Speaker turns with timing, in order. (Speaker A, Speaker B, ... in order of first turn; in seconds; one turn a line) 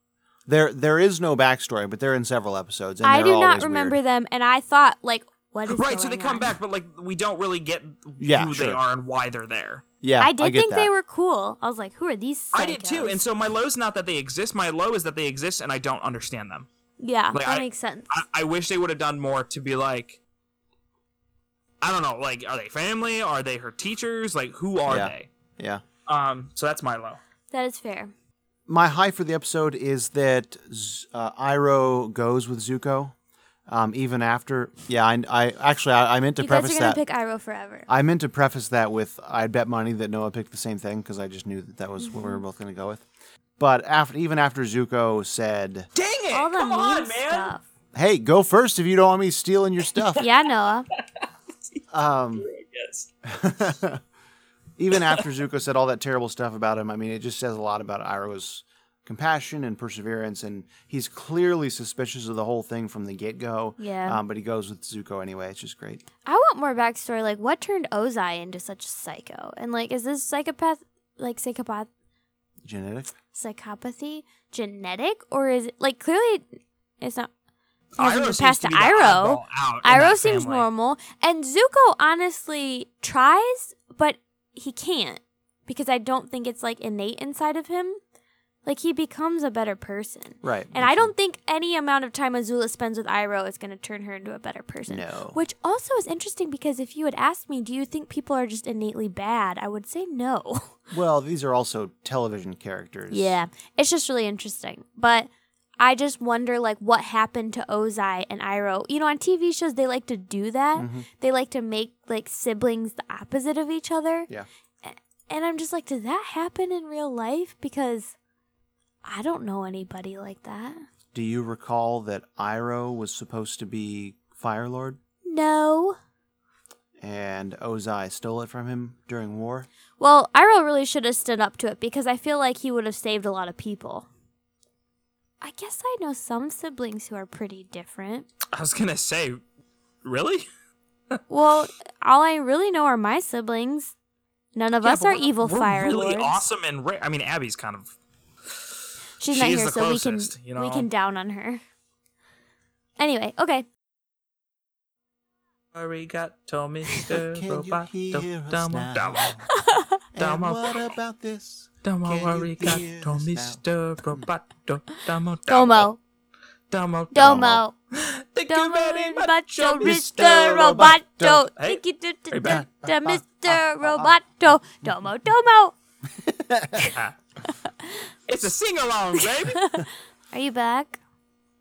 Speaker A: 0.5-4.0
Speaker B: 3.0-6.5
Speaker C: 5.7-9.8
Speaker A: 8.2-8.8
Speaker A: 10.0-10.9
Speaker B: 10.2-13.2
Speaker C: 12.5-16.7
Speaker B: 17.0-18.2
Speaker C: 17.3-20.2
Speaker C: 21.8-25.3
Speaker A: 24.9-25.8
Speaker C: 26.1-27.2
Speaker B: 27.5-28.1
Speaker A: 28.7-33.1
Speaker A: 33.7-37.0
Speaker B: 36.4-37.9
Speaker A: 37.9-43.0
Speaker B: 42.0-42.4
Speaker A: 43.6-45.9
Speaker C: 45.9-47.5
Speaker B: 46.3-47.6
Speaker A: 47.9-50.2
Speaker B: 50.2-50.9
Speaker A: 51.9-52.5
Speaker C: 52.4-53.1
Speaker A: 53.2-54.0
Speaker A: 54.8-66.0
Speaker C: 55.0-55.2
Speaker B: 63.8-64.2
Speaker B: 66.2-71.9
Speaker A: 72.6-73.1
Speaker B: 73.3-77.3
Speaker C: 78.0-80.7
Speaker B: 78.0-88.0
Speaker B: 88.6-100.8
Speaker A: 90.4-91.1
Speaker A: 94.9-95.4
Speaker A: 100.9-103.3
Speaker B: 103.1-114.3
Speaker A: 110.8-111.0
Speaker B: 114.8-118.1
Speaker B: 119.0-120.8
Speaker A: 121.1-125.0
Speaker B: 125.2-126.0
Speaker A: 127.0-129.7
Speaker B: 130.0-134.1
Speaker B: 135.4-138.3
Speaker C: 138.5-139.4
Speaker C: 140.0-140.5
Speaker B: 141.3-143.9
Speaker B: 144.5-146.4
Speaker C: 144.8-147.9
Speaker B: 149.2-151.6
Speaker C: 149.3-150.9
Speaker B: 153.0-153.7
Speaker C: 155.7-159.4
Speaker A: 157.3-159.4
Speaker B: 159.5-160.0
Speaker A: 160.1-164.3
Speaker C: 160.2-160.7
Speaker C: 161.8-165.9
Speaker B: 165.5-166.0
Speaker C: 166.7-171.0
Speaker B: 167.1-167.7
Speaker A: 167.2-167.6
Speaker B: 168.5-175.7
Speaker A: 170.7-171.4
Speaker C: 172.3-172.7
Speaker A: 172.5-173.2
Speaker A: 173.8-174.1
Speaker A: 176.2-176.8
Speaker B: 177.5-178.0
Speaker C: 178.3-179.8
Speaker B: 179.4-181.0